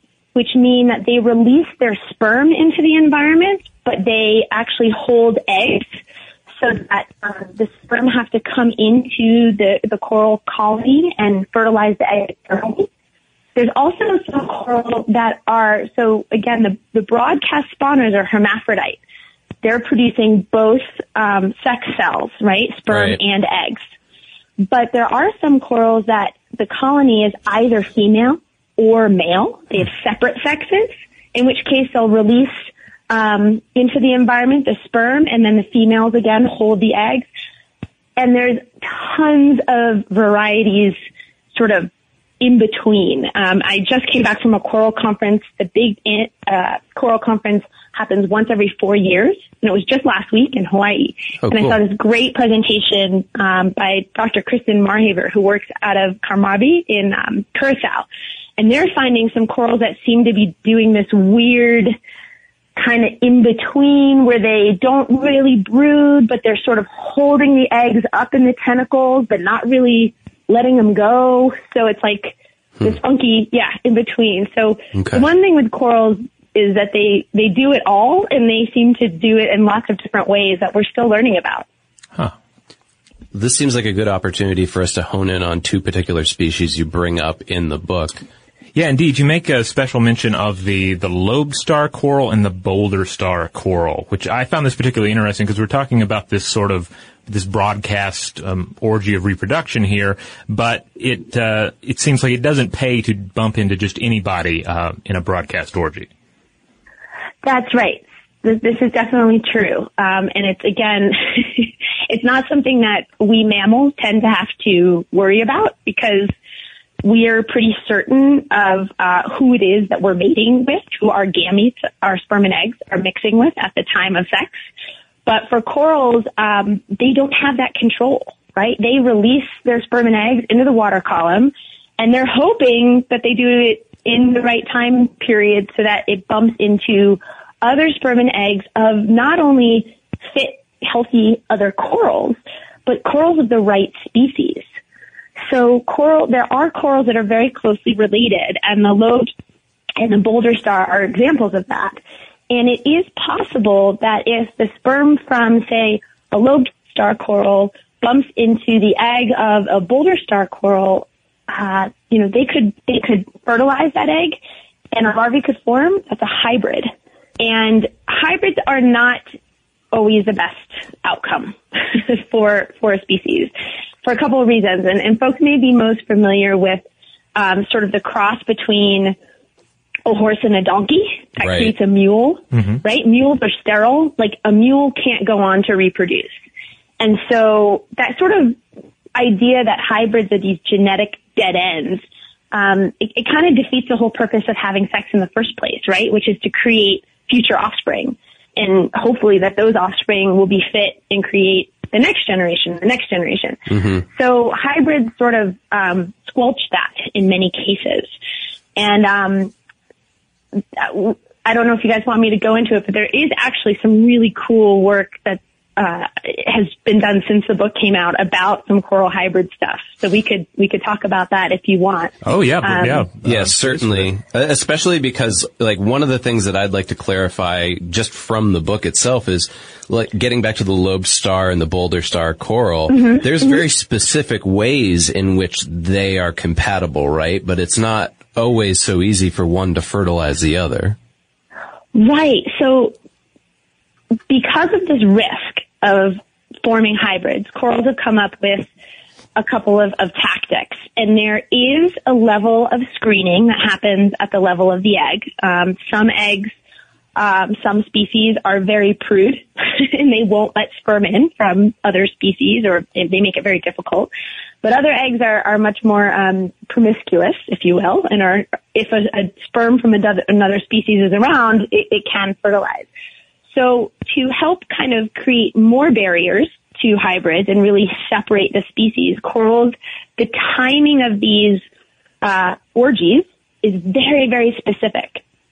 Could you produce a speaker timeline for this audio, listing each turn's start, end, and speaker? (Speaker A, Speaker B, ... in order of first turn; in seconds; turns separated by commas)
Speaker A: 0.3-5.9, Speaker A: 6.6-12.9, Speaker A: 13.6-19.0, Speaker A: 19.6-23.8, Speaker B: 22.9-23.2, Speaker A: 24.6-37.3, Speaker A: 38.2-41.0, Speaker A: 41.5-58.0, Speaker B: 51.4-51.7, Speaker A: 58.6-62.0, Speaker A: 62.8-81.7, Speaker B: 74.9-75.2, Speaker B: 83.3-88.2, Speaker C: 88.7-106.1, Speaker A: 107.4-116.3, Speaker A: 117.0-124.5, Speaker A: 125.2-144.7, Speaker A: 145.4-149.3, Speaker A: 150.0-164.4, Speaker A: 164.9-169.2, Speaker A: 169.9-173.5, Speaker A: 174.0-176.8, Speaker A: 177.3-179.2, Speaker A: 180.1-186.4, Speaker B: 181.4-181.7, Speaker A: 187.0-188.6, Speaker A: 189.1-208.1, Speaker B: 203.7-204.0, Speaker A: 208.8-209.5, Speaker A: 210.8-223.1, Speaker C: 222.2-224.1, Speaker B: 223.2-241.0, Speaker A: 232.9-233.6, Speaker A: 241.9-242.9, Speaker A: 244.3-248.7, Speaker A: 249.3-256.5, Speaker A: 257.1-264.1, Speaker A: 264.6-272.9, Speaker A: 273.5-281.6, Speaker A: 282.2-285.2